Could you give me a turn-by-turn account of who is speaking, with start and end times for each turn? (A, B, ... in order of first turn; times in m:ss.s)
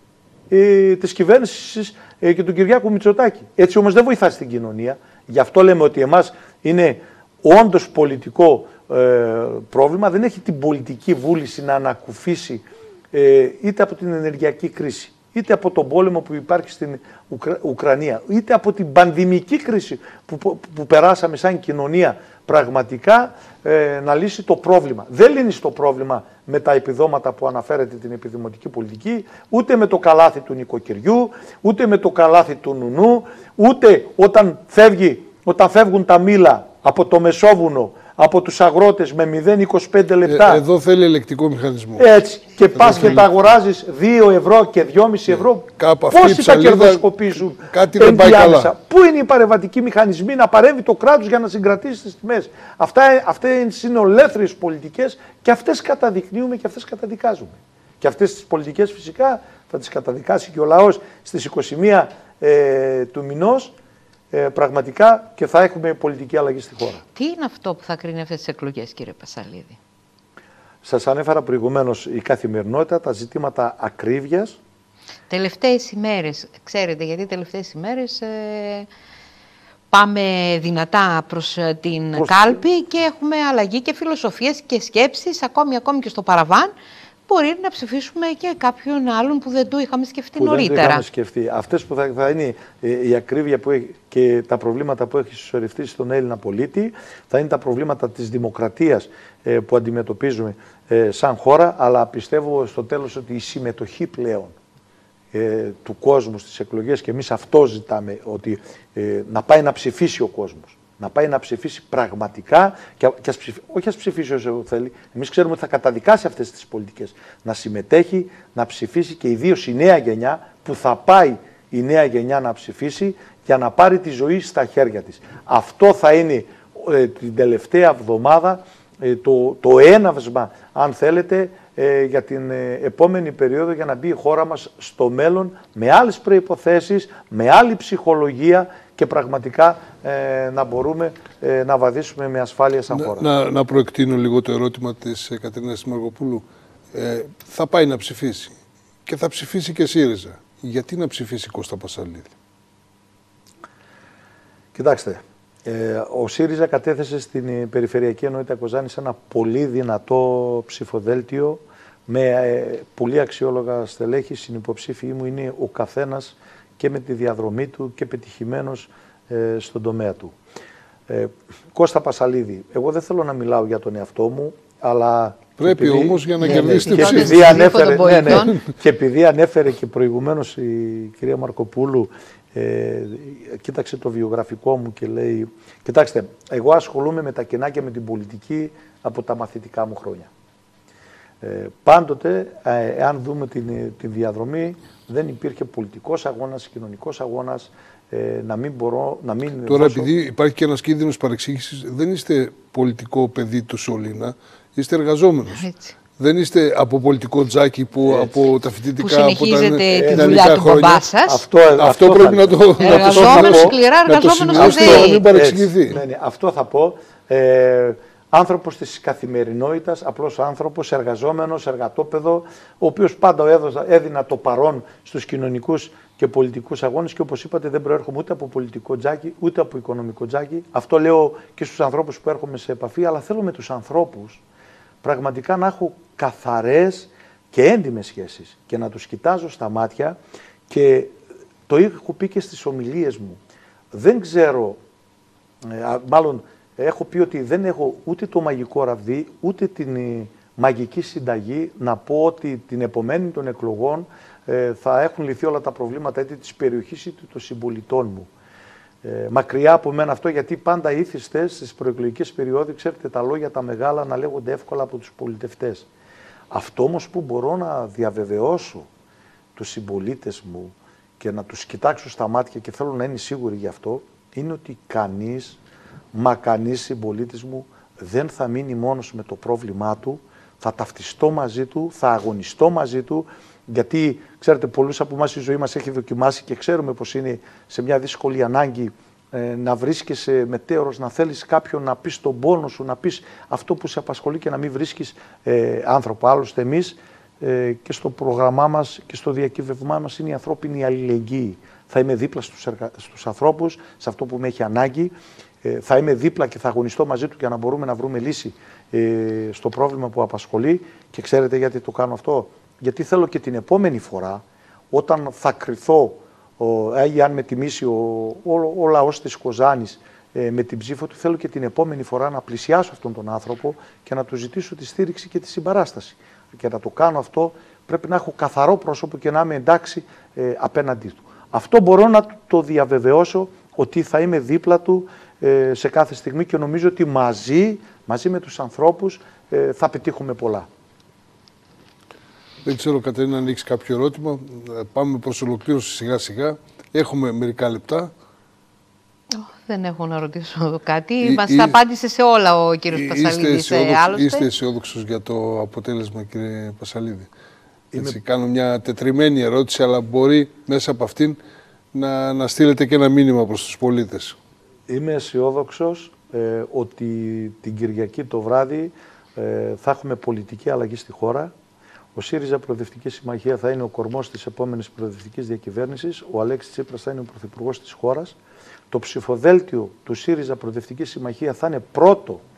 0:00.5-0:40.6 A
0:40.2-0:42.0 B
0:42.0-1:03.7 A
0:42.7-0:43.2 B
0:45.8-0:48.7 B
1:04.3-1:07.0 A
1:07.1-1:09.8 C
1:10.8-1:14.6 A
1:15.3-1:18.9 C
1:19.9-1:26.7 C
1:22.1-1:22.6 A
1:27.3-1:31.0 C
1:30.4-1:44.5 A
1:45.3-2:23.3 A
2:22.9-2:32.3 B
2:34.7-2:50.3 A
2:51.1-3:10.3 A
2:55.6-2:58.6 B
2:56.4-2:58.6 C
3:11.4-3:20.1 A
3:19.6-3:25.7 B
3:25.5-3:25.9 C
3:26.2-3:31.1 B
3:28.1-3:28.4 A
3:29.0-3:31.4 C
3:29.9-3:30.6 A
3:31.2-3:33.8 A
3:31.8-3:36.0 B
3:32.8-3:35.2 C
3:34.5-3:54.4 A
3:55.0-4:01.1 A
4:01.7-4:03.4 A
4:03.9-4:04.8 A
4:05.6-4:18.3 A
4:19.0-4:25.9 A
4:26.5-4:28.9 A
4:29.5-4:35.6 A
4:36.1-5:40.7 A
5:42.6-5:48.1 B
5:49.3-5:54.5 C
5:51.2-5:51.8 B
5:52.9-5:57.3 B
5:57.9-5:58.2 A
5:57.9-6:01.4 B
6:01.9-6:04.4 B
6:04.9-6:11.5 A
6:12.1-6:18.4 A
6:18.9-6:22.4 A